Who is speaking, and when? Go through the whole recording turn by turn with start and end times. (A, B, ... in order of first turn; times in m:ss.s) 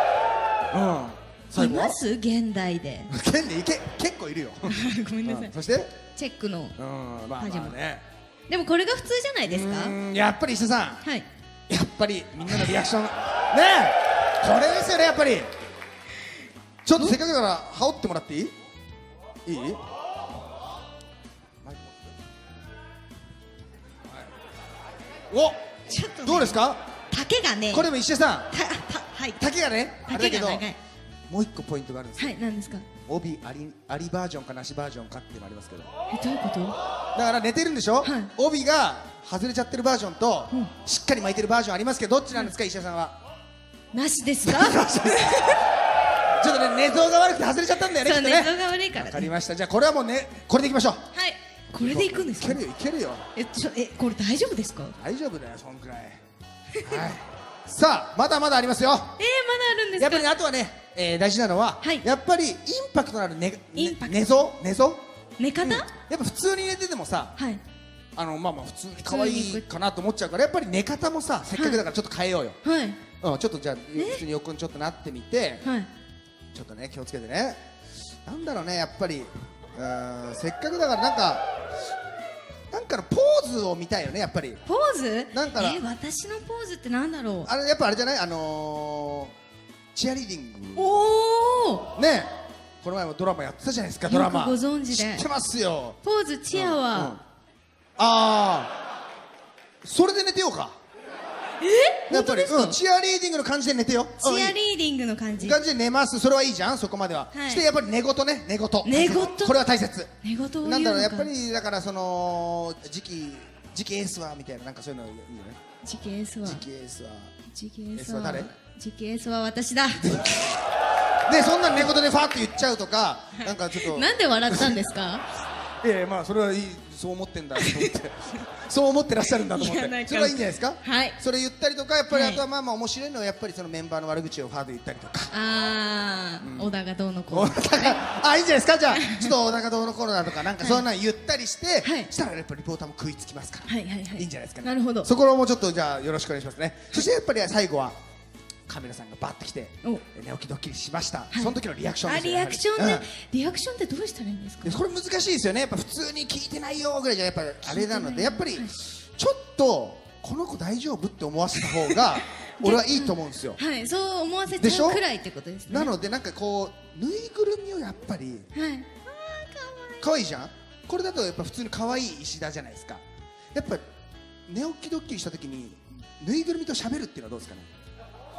0:00.7-0:02.0 A
0:01.6-0:03.1 B
0:03.1-0:05.9 A
0:04.6-0:05.5 B
0:06.1-0:06.7 B
0:06.8-0:08.0 A
0:07.4-0:07.8 B
0:08.5-0:10.0 B
0:09.4-0:11.0 A
0:11.0-0:11.3 B
0:11.7-0:15.5 A
0:16.8-0:18.5 A
0:19.4-0:19.8 A
0:21.6-0:21.9 A
0:25.3-0:25.6 A
0:25.9-0:26.6 B
0:26.2-0:26.8 A
0:27.1-0:27.9 B
0:27.7-0:28.5 A
0:28.5-0:29.4 B
0:29.4-0:30.6 A
0:30.1-0:30.8 B
0:31.3-0:32.3 A
0:32.2-0:32.9 B
0:33.0-0:35.9 A
0:36.1-0:36.8 B
0:37.1-0:43.2 A
0:38.0-0:38.3 B
0:43.9-0:45.6 B
0:44.4-0:45.6 A
0:46.4-0:51.0 A
0:48.0-0:49.3 B
0:51.1-0:52.6 B
0:51.8-0:53.2 A
0:53.3-0:55.0 B
0:55.0-0:56.2 A
0:56.7-0:57.1 B
0:56.8-0:59.2 A
0:59.2-1:00.2 B
1:00.0-1:05.0 A
1:03.8-1:04.2 B
1:05.4-1:05.9 B
1:05.6-1:07.4 A
1:08.2-1:12.6 A
1:09.0-1:09.6 B
1:12.6-1:13.0 B
1:13.2-1:15.6 A
1:14.0-1:14.2 B
1:15.6-1:15.9 B
1:16.5-1:17.6 A
1:18.2-1:21.5 A
1:22.7-1:24.6 A
1:24.6-1:27.5 B
1:25.3-1:25.8 A
1:27.4-1:29.3 A
1:29.9-1:30.9 A
1:30.8-1:31.9 B
1:32.0-1:32.3 A
1:32.8-1:36.0 A
1:34.1-1:35.2 B
1:36.0-1:37.2 B
1:36.5-1:37.2 A
1:38.0-1:38.7 A
1:39.8-1:40.7 A
1:41.6-1:42.8 B
1:42.1-1:44.6 A
1:44.2-1:45.6 B
1:45.4-1:50.1 A
1:47.3-1:47.6 B
1:48.8-1:49.6 B
1:50.2-1:51.3 B
1:50.6-1:55.6 A
1:55.8-1:56.6 B
1:56.4-1:57.3 A
1:57.5-2:00.0 B
1:58.0-1:58.5 A
2:00.0-2:00.6 A
2:01.3-2:04.8 A
2:03.4-2:05.2 B
2:05.8-2:15.3 A
2:07.6-2:07.9 B
2:09.4-2:11.2 B
2:12.1-2:12.4 B
2:15.3-2:18.0 B
2:16.4-2:16.7 A
2:17.3-2:28.0 A
2:18.9-2:19.3 B
2:20.6-2:20.8 B
2:21.8-2:22.1 B
2:23.7-2:25.1 B
2:28.7-2:33.0 A
2:32.0-2:34.8 B
2:34.6-2:43.6 A
2:37.6-2:38.7 B
2:41.6-2:45.9 B
2:44.6-2:45.0 A
2:45.7-2:48.5 A
2:48.5-2:50.0 B
2:50.0-2:53.0 A
2:53.5-2:53.8 A
2:54.5-2:57.7 A